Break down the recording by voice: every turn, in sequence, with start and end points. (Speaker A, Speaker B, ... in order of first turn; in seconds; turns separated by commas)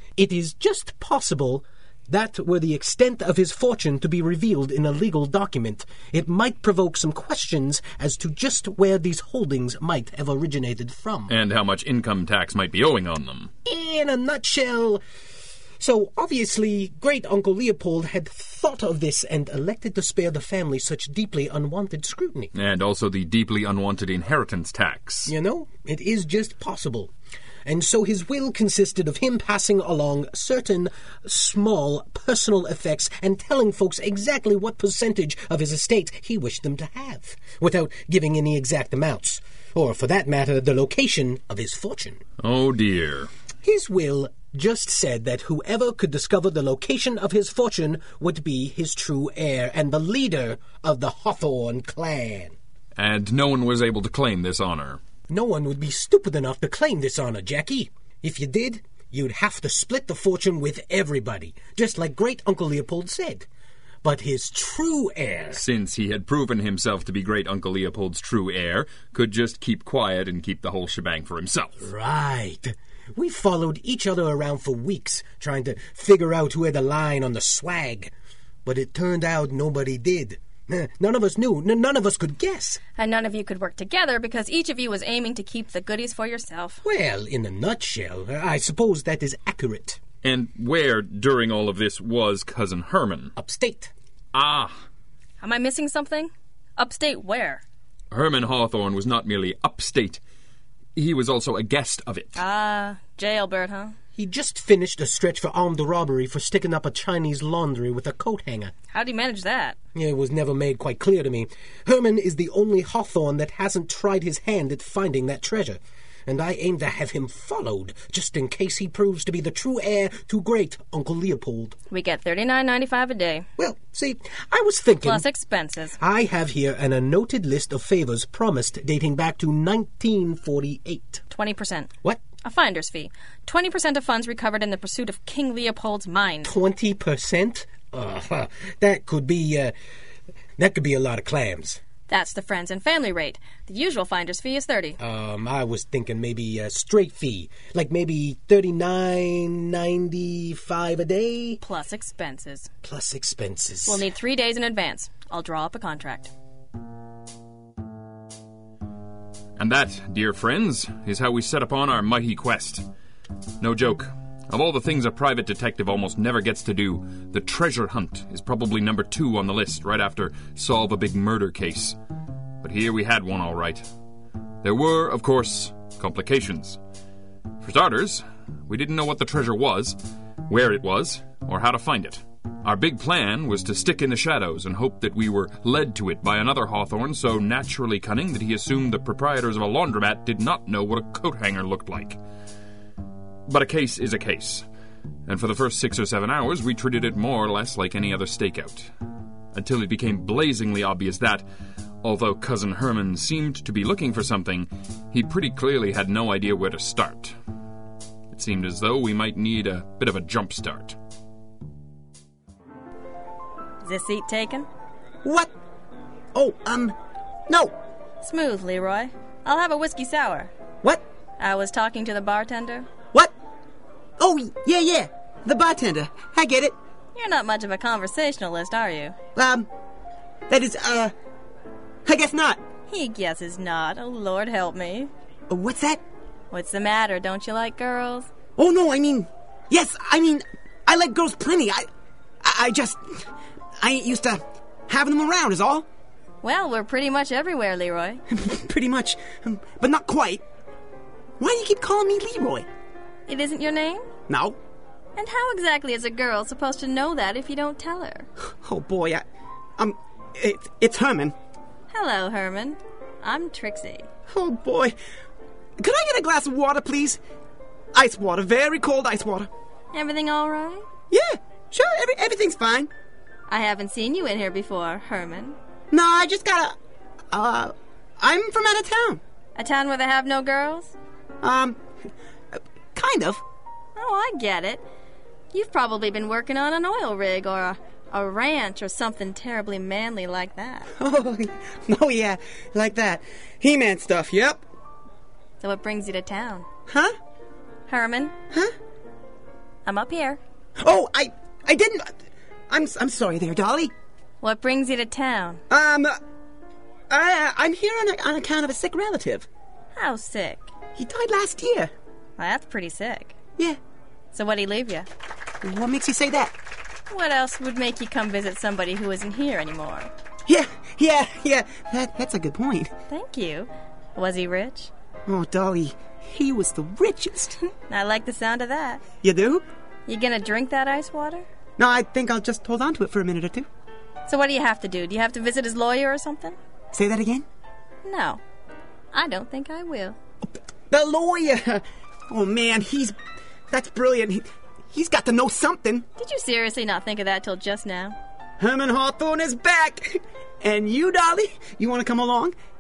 Speaker A: 0.2-11.3, Speaker B: 11.3-13.5, Speaker A: 13.7-15.0, Speaker A: 15.8-22.5, Speaker B: 22.5-25.3, Speaker A: 25.3-27.1, Speaker A: 27.7-42.2, Speaker B: 42.4-43.3, Speaker A: 43.6-52.6, Speaker B: 53.0-55.0, Speaker A: 55.3-63.5, Speaker A: 64.0-65.6, Speaker B: 65.5-71.8, Speaker A: 71.8-78.1, Speaker A: 78.7-82.8, Speaker C: 83.0-86.8, Speaker A: 86.8-90.0, Speaker B: 90.2-93.3, Speaker A: 93.4-93.9, Speaker B: 94.3-94.8, Speaker C: 95.4-97.6, Speaker B: 98.1-100.2, Speaker B: 101.0-102.3, Speaker C: 102.3-103.9, Speaker A: 104.2-108.7, Speaker C: 108.9-109.8, Speaker A: 109.9-121.8, Speaker C: 121.9-123.5, Speaker A: 123.6-125.3, Speaker C: 125.0-126.0, Speaker A: 126.0-131.2, Speaker C: 131.3-131.9, Speaker C: 132.4-136.5, Speaker A: 136.4-139.7, Speaker A: 140.6-141.8, Speaker C: 142.1-145.0, Speaker A: 145.0-151.6, Speaker C: 151.6-152.7, Speaker A: 152.8-154.1, Speaker C: 153.9-156.3, Speaker B: 159.6-162.8, Speaker B: 163.6-172.0, Speaker B: 172.6-173.9, Speaker B: 174.6-176.8, Speaker B: 177.6-192.2, Speaker B: 193.5-194.7, Speaker B: 195.3-198.9, Speaker B: 199.5-201.4, Speaker B: 202.0-207.4, Speaker B: 208.3-211.0, Speaker C: 213.8-214.7, Speaker D: 215.2-215.5, Speaker D: 216.3-217.0, Speaker D: 217.5-217.7, Speaker C: 218.2-220.5, Speaker C: 221.4-222.9, Speaker D: 224.2-226.8, Speaker C: 227.2-229.2, Speaker D: 229.4-229.7, Speaker D: 230.5-231.1, Speaker D: 232.1-232.6, Speaker C: 232.9-235.1, Speaker D: 235.5-236.0, Speaker C: 236.5-238.3, Speaker D: 238.6-241.9, Speaker D: 242.4-243.2, Speaker D: 243.8-245.9, Speaker C: 246.4-248.2, Speaker D: 248.3-250.4, Speaker D: 251.4-252.7, Speaker C: 253.3-254.1, Speaker D: 254.3-254.6, Speaker C: 255.2-258.3, Speaker D: 258.5-259.2, Speaker D: 259.8-261.4, Speaker C: 261.9-264.1, Speaker D: 264.3-264.9, Speaker D: 265.8-267.2, Speaker D: 267.9-269.5, Speaker C: 269.9-270.9, Speaker D: 271.1-272.9, Speaker C: 273.5-275.6, Speaker D: 275.9-276.8, Speaker D: 277.3-279.2, Speaker C: 279.6-280.9, Speaker D: 281.4-281.8, Speaker D: 282.9-283.4, Speaker C: 284.0-284.8, Speaker C: 285.5-290.9, Speaker D: 291.0-294.6, Speaker C: 295.6-296.7, Speaker D: 296.9-297.1, Speaker C: 297.9-298.3, Speaker C: 299.9-300.4, Speaker D: 300.8-302.1, Speaker D: 302.7-303.9, Speaker C: 304.4-305.6, Speaker D: 305.7-306.2, Speaker D: 307.1-309.5, Speaker C: 309.9-310.7, Speaker D: 311.0-311.9, Speaker C: 312.4-313.4, Speaker C: 314.3-315.1, Speaker D: 315.6-316.6, Speaker C: 317.1-320.1, Speaker D: 320.5-322.9, Speaker C: 323.1-324.9, Speaker D: 325.3-327.6, Speaker C: 327.8-329.0, Speaker D: 329.2-329.6, Speaker C: 330.1-331.5, Speaker D: 331.8-333.7, Speaker C: 334.3-336.6, Speaker D: 336.9-337.5, Speaker C: 338.0-338.4, Speaker C: 339.1-340.2, Speaker D: 340.9-343.2, Speaker D: 343.7-346.1, Speaker C: 346.2-348.2, Speaker D: 348.6-352.6